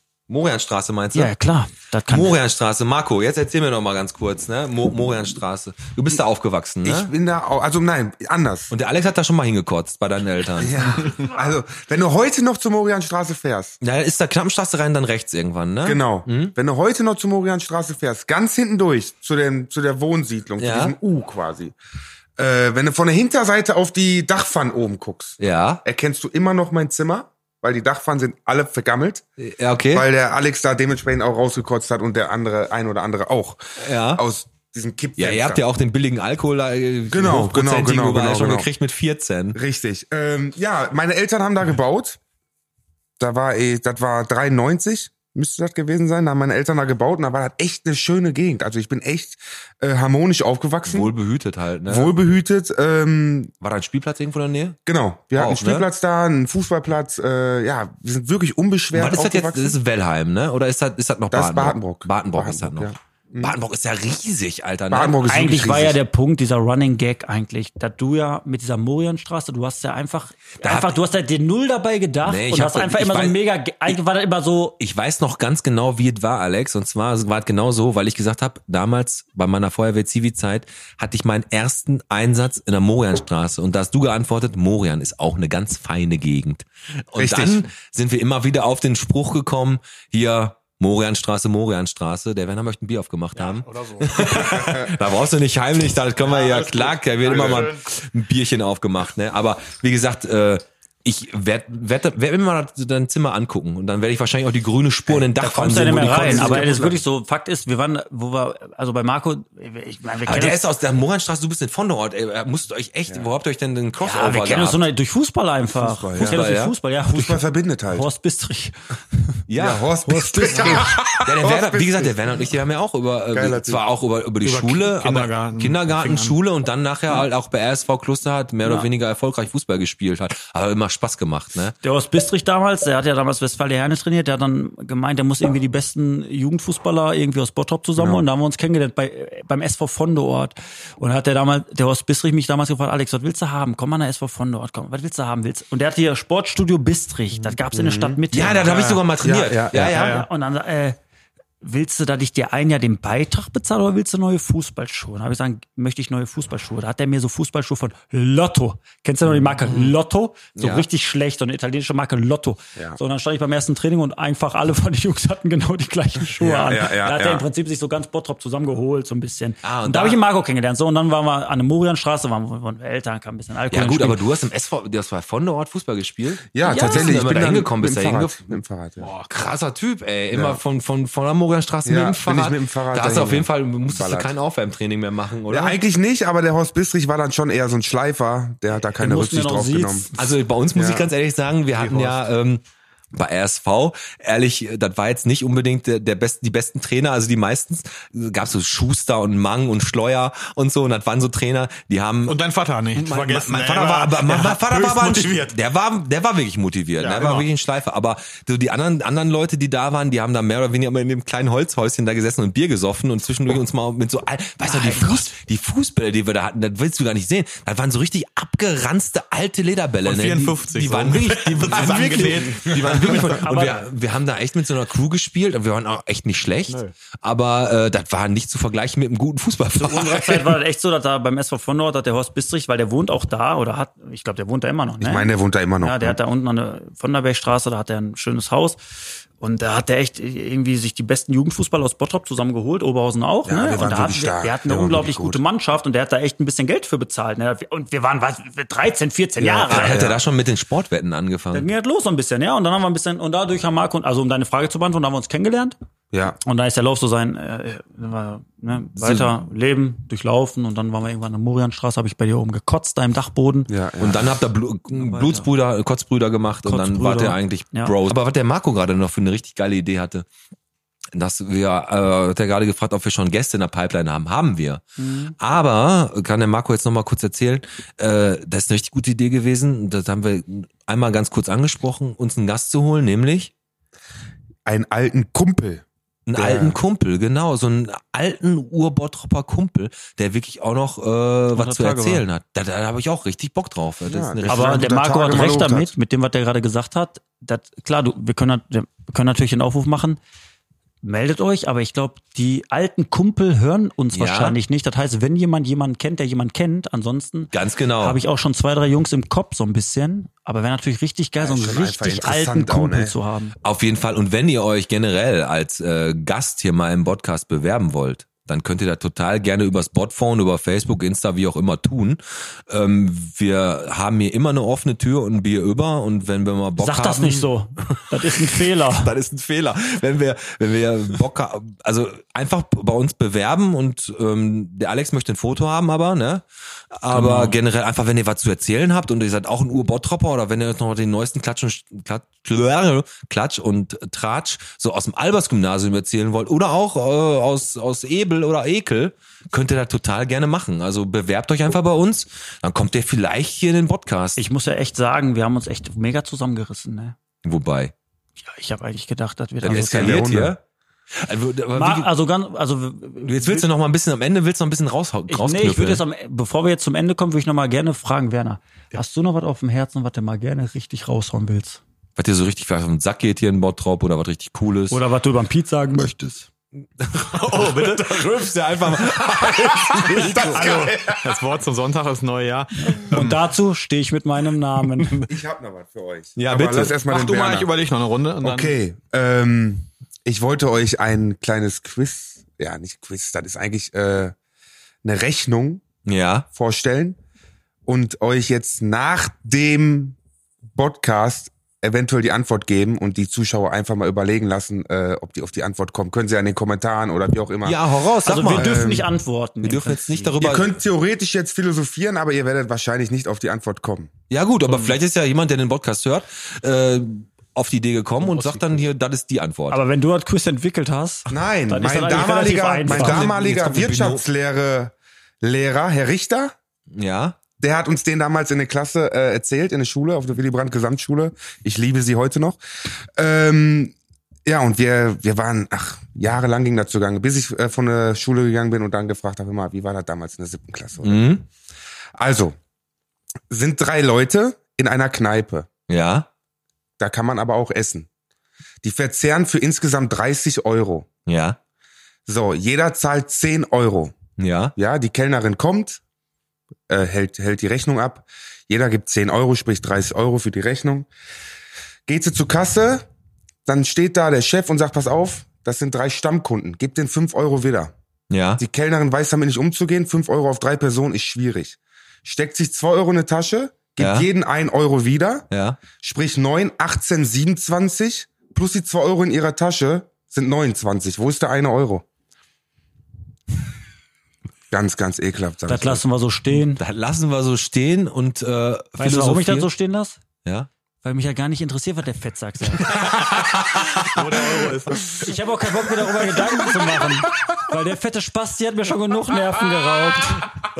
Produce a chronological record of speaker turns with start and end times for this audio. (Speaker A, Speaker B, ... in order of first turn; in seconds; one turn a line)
Speaker A: 0.3-1.3
Speaker B: 1.1-2.4
Speaker A: 2.1-7.1
Speaker C: 6.8-8.7
Speaker A: 8.7-11.0
Speaker C: 10.6-13.8
Speaker A: 13.8-16.5
Speaker C: 15.8-21.7
Speaker A: 20.6-20.9
Speaker C: 22.4-29.2
Speaker A: 25.4-25.8
Speaker A: 29.4-30.1
Speaker C: 29.9-35.6
Speaker A: 33.8-34.2
Speaker A: 35.2-39.6
Speaker C: 37.1-38.7
Speaker C: 39.5-42.2
Speaker C: 43.2-51.1
Speaker A: 50.9-52.1
Speaker C: 51.9-53.5
Speaker A: 53.6-54.8
Speaker C: 54.9-59.8
Speaker A: 55.3-55.9
Speaker A: 58.9-65.8
Speaker C: 61.3-63.5
Speaker C: 64.9-66.0
Speaker B: 65.2-74.8
Speaker A: 70.6-71.0
Speaker A: 72.2-73.4
Speaker A: 74.8-106.9
Speaker C: 87.2-87.7
Speaker D: 93.3-94.6
Speaker C: 94.5-94.9
Speaker D: 96.2-97.8
Speaker B: 105.3-110.6
Speaker C: 106.0-107.0
Speaker A: 110.2-114.9
Speaker B: 114.0-119.2
Speaker C: 115.7-116.4
Speaker A: 116.1-116.8
Speaker C: 117.1-118.0
Speaker A: 119.5-119.9
Speaker C: 119.6-122.5
Speaker B: 120.0-120.9
Speaker A: 121.1-131.8
Speaker C: 123.3-123.8
Speaker D: 124.4-126.3
Speaker B: 131.8-148.8
Speaker C: 138.0-138.2
Speaker C: 147.7-148.2
Speaker A: 148.3-150.2
Speaker D: 148.6-149.0
Speaker C: 149.2-149.9
Speaker B: 149.8-151.0
Speaker D: 149.9-150.3
Speaker B: 151.6-174.2
Speaker A: 160.6-160.9
Speaker C: 166.4-167.4
Speaker A: 169.6-170.2
Speaker A: 173.7-178.6
Speaker C: 176.5-179.1
Speaker B: 176.6-177.0
Speaker A: 179.2-185.8
Speaker C: 180.3-180.6
Speaker C: 181.8-184.3
Speaker C: 185.5-190.1
Speaker B: 188.8-190.1
Speaker A: 190.1-192.6
Speaker C: 190.7-191.1
Speaker D: 191.9-192.1
Speaker A: 193.1-202.4
Speaker D: 202.3-205.5
Speaker A: 202.9-230.6
Speaker D: 207.0-207.5
Speaker B: 214.6-215.3
Speaker D: 220.0-223.4
Speaker B: 223.4-223.8
Speaker B: 229.8-238.8
Speaker C: 235.0-236.2
Speaker B: 239.4-250.1
Speaker C: 243.4-245.4
Speaker C: 249.4-250.2
Speaker A: 249.7-251.7
Speaker B: 251.5-255.8
Speaker C: 256.1-256.4
Speaker B: 256.4-263.7
Speaker A: 259.0-259.3
Speaker C: 263.7-264.4
Speaker A: 264.0-270.2
Speaker B: 264.9-265.5
Speaker B: 266.6-267.9
Speaker A: 271.1-274.8
Speaker B: 275.0-275.3
Speaker A: 275.4-283.5
Speaker C: 284.6-286.8
Speaker A: 286.2-294.9
Speaker B: 291.5-292.2
Speaker C: 294.0-295.9
Speaker B: 294.5-300.2
Speaker B: 301.0-313.5
Speaker A: 304.1-304.6
Speaker A: 307.5-308.2
Speaker C: 311.4-313.1
Speaker A: 313.6-327.9
Speaker B: 326.8-329.1
Speaker A: 328.8-354.4
Speaker B: 337.1-337.6
Speaker B: 354.4-357.1
Speaker A: 357.4-357.9
Speaker B: 358.4-360.3
Speaker A: 359.6-360.6
Speaker C: 359.7-360.6
Speaker A: 361.1-362.1
Speaker B: 361.7-363.7
Speaker A: 363.2-366.0
Speaker B: 365.3-371.8
Speaker A: 372.2-375.0
Speaker B: 374.9-376.5
Speaker A: 377.0-380.9
Speaker D: 377.3-378.4
Speaker D: 380.1-383.4
Speaker C: 380.1-380.9
Speaker B: 382.9-385.1
Speaker C: 385.3-387.7
Speaker A: 386.4-387.0
Speaker D: 387.0-388.7
Speaker C: 388.4-394.3
Speaker C: 395.0-395.8
Speaker A: 396.1-396.5
Speaker C: 396.5-397.2
Speaker C: 397.9-400.2
Speaker C: 400.7-407.8
Speaker A: 407.6-408.8
Speaker B: 408.2-410.4
Speaker C: 408.5-409.1
Speaker A: 409.6-410.8
Speaker C: 410.4-414.1
Speaker A: 414.3-419.8
Speaker B: 418.3-418.6
Speaker B: 419.7-423.8
Speaker C: 421.3-426.5
Speaker A: 422.9-424.2
Speaker A: 426.9-427.4
Speaker C: 427.6-432.6
Speaker C: 433.1-433.9
Speaker C: 434.4-441.3
Speaker A: 441.0-441.4
Speaker C: 442.1-442.6
Speaker C: 443.5-445.7
Speaker A: 445.9-446.3
Speaker C: 447.0-448.1
Speaker C: 448.8-451.1
Speaker A: 451.3-451.6
Speaker C: 452.2-454.1
Speaker A: 454.4-454.8
Speaker C: 454.8-456.0
Speaker C: 456.9-461.1
Speaker C: 462.1-463.0
Speaker C: 463.6-467.9
Speaker A: 468.3-468.6
Speaker C: 468.6-482.0
Speaker A: 474.0-474.3
Speaker A: 475.5-475.8
Speaker C: 484.7-486.0
Speaker B: 485.7-486.8
Speaker A: 486.6-489.7
Speaker B: 489.0-490.2
Speaker B: 491.0-492.9
Speaker A: 492.8-494.0
Speaker D: 494.1-495.1
Speaker B: 495.2-500.5